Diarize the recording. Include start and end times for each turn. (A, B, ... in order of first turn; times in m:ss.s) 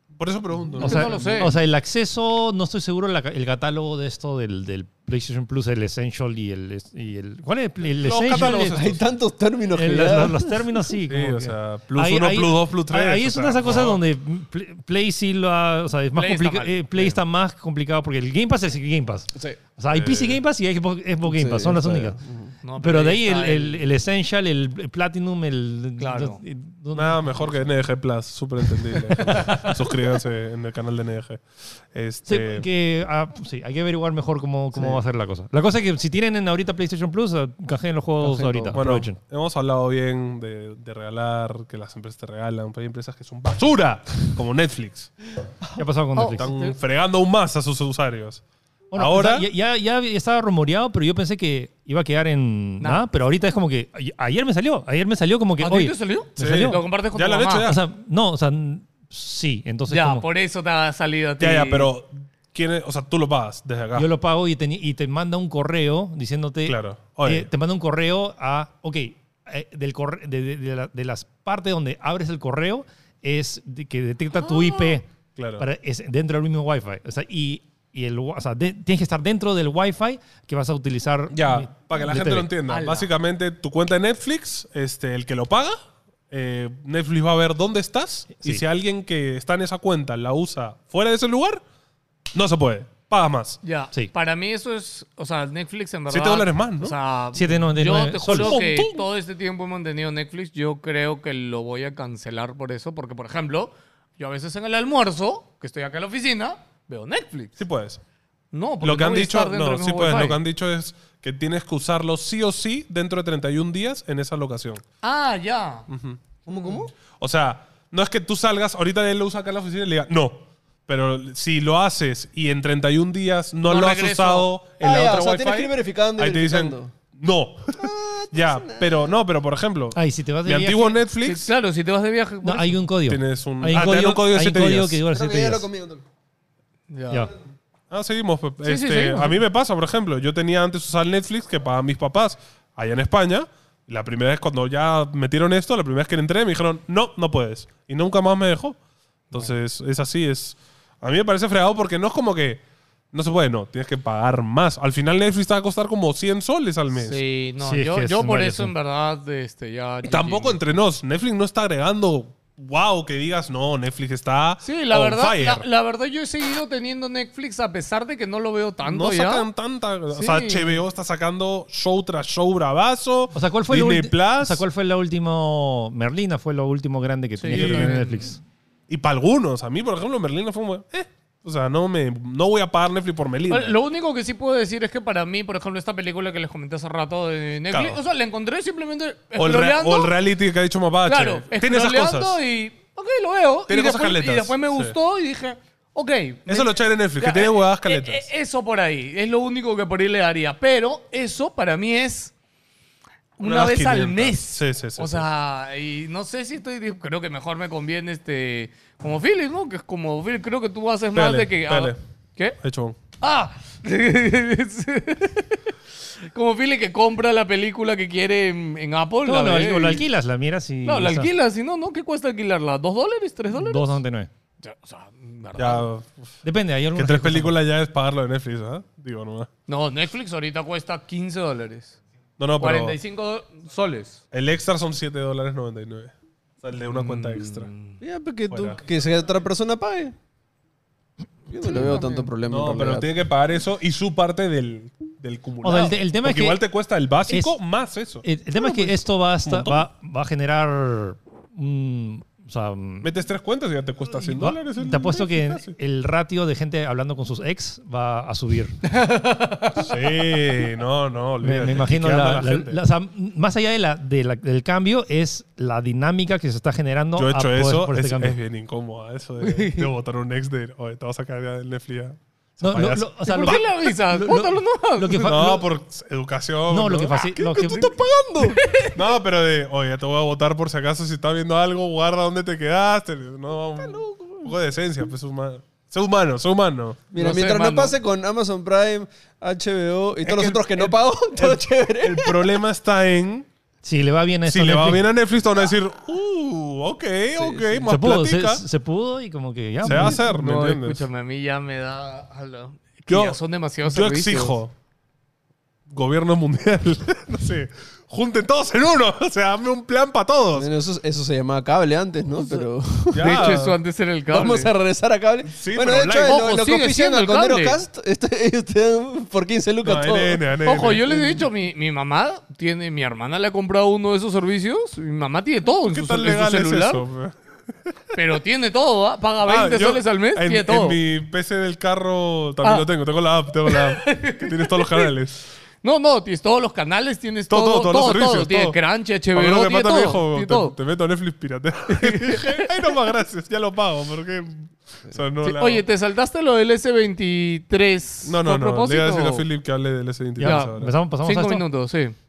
0:00.2-0:01.4 A
0:00.7-0:01.4 B
0:00.8-0:01.5 C
0:00.8-0:08.8 D
0:08.0-0:09.0 A
0:08.3-0:10.6 B
0:09.7-0:22.2 D
0:11.1-0:14.0 A
0:16.1-0:17.2 C
0:19.9-0:20.4 A
0:21.2-0:22.5 B
0:22.6-0:23.8 C
0:22.8-0:27.5 D
0:26.0-0:26.4 C
0:26.9-0:32.6 A
0:29.2-0:29.8 D
0:32.2-0:39.2 D
0:34.7-0:35.0 B
0:38.2-0:38.8 B
0:38.7-0:45.3 A
0:45.8-0:46.5 D
0:46.1-0:46.8 C
0:46.4-0:48.4 A
0:48.9-0:56.8 D
0:48.9-0:49.5 A
0:55.6-0:57.7 C
0:56.4-0:57.8 A
0:57.6-1:00.2 D
0:59.9-1:01.9 C
1:01.4-1:04.1 A
1:03.9-1:15.1 D
1:06.6-1:07.5 A
1:14.4-1:15.0 C
1:15.4-1:15.6 A
1:15.6-1:22.5 D
1:21.3-1:25.8 A
1:22.7-1:23.1 C
1:26.3-1:31.6 A
1:32.3-1:33.6 A
1:33.6-1:47.6 C
1:36.1-1:37.0 A
1:37.3-1:38.6 D
1:38.3-1:39.0 A
1:47.6-1:48.0 A
1:48.5-1:50.4 C
1:48.8-1:54.8 A
1:55.0-1:55.9 C
1:55.9-1:56.2 A
1:56.4-1:56.9 B
1:57.0-2:11.5 A
2:03.6-2:04.5 C
2:04.8-2:06.9 B
2:07.8-2:09.1 B
2:09.9-2:11.0 D
2:11.2-2:12.8 C
2:12.4-2:15.7 D
2:13.0-2:15.0 A
2:15.1-2:16.0 B
2:16.9-2:17.3 C
2:17.9-2:28.8 A
2:18.6-2:19.4 C
2:29.3-2:32.6 A
2:33.1-2:37.2 A
2:36.9-2:40.6 C
2:37.6-2:38.7 D
2:40.0-2:45.6 A
2:44.6-2:49.5 C
2:48.8-2:54.6 A
2:50.1-2:50.8 C
2:53.3-2:58.4 D
2:57.4-2:58.3 C
2:57.5-2:58.0 A
2:58.9-3:03.8 A
3:03.5-3:10.1 C
3:07.7-3:08.0 A
3:09.4-3:12.4 A
3:11.0-3:22.3 C
3:13.7-3:14.9 A
3:16.5-3:18.2 A
3:23.4-3:32.6 C
3:23.4-3:25.2 A
3:31.1-3:32.0 A
3:32.6-3:33.0 A
3:33.2-3:35.7 C
3:36.3-3:40.0 C
3:39.2-3:41.3 D
3:40.8-3:44.0 C
3:43.5-3:44.3 D
3:44.6-3:45.9 C
3:45.6-3:46.3 A
3:46.4-3:47.6 D
3:46.9-3:49.5 A
3:49.7-3:51.9 C
3:52.4-3:53.0 A
3:52.6-3:54.2 C
3:54.3-3:57.7 A
3:56.8-3:58.0 C
3:58.0-4:00.1 B
3:58.5-3:58.8 A
4:01.5-4:03.1 B
4:01.6-4:02.3 C
4:02.4-4:09.8 A
4:05.6-4:06.6 D
4:07.3-4:07.5 D
4:08.2-4:13.1 D
4:13.0-4:15.8 A
4:14.1-4:18.8 D
4:18.8-4:19.9 C
4:19.8-4:22.8 A
4:21.4-4:28.4 D
4:27.2-4:33.6 A
4:29.4-4:29.9 C
4:32.6-4:35.6 D
4:33.2-4:35.6 C
4:35.2-4:37.6 A
4:36.7-4:37.9 D
4:37.5-4:38.6 B
4:38.4-4:39.0 C
4:38.9-4:47.0 A
4:43.8-4:44.5 B
4:47.1-4:52.6 B
4:47.1-4:48.0 C
4:50.2-4:53.5 A
4:53.8-4:55.0 D
4:54.5-4:58.6 A
4:57.3-4:57.9 B
4:57.8-5:00.2 D
4:59.8-5:01.0 A
4:59.9-5:04.6 C
5:03.1-5:04.7 A
5:05.9-5:10.7 A
5:10.5-5:13.4 B
5:13.1-5:14.7 C
5:13.1-5:13.8 A
5:14.3-5:20.4 B
5:15.5-5:16.4 A
5:16.2-5:17.8 C
5:19.8-5:21.1 A
5:20.6-5:27.0 C
5:21.0-5:21.4 B
5:25.9-5:27.4 A
5:28.1-5:31.0 C
5:29.4-5:35.4 A
5:33.6-5:35.1 C
5:35.8-5:40.7 C
5:37.5-5:38.8 A
5:39.3-5:45.8 A
5:41.9-5:42.9 C
5:45.4-5:49.4 C
5:48.2-5:50.9 A
5:50.4-5:51.6 D
5:50.4-5:52.1 C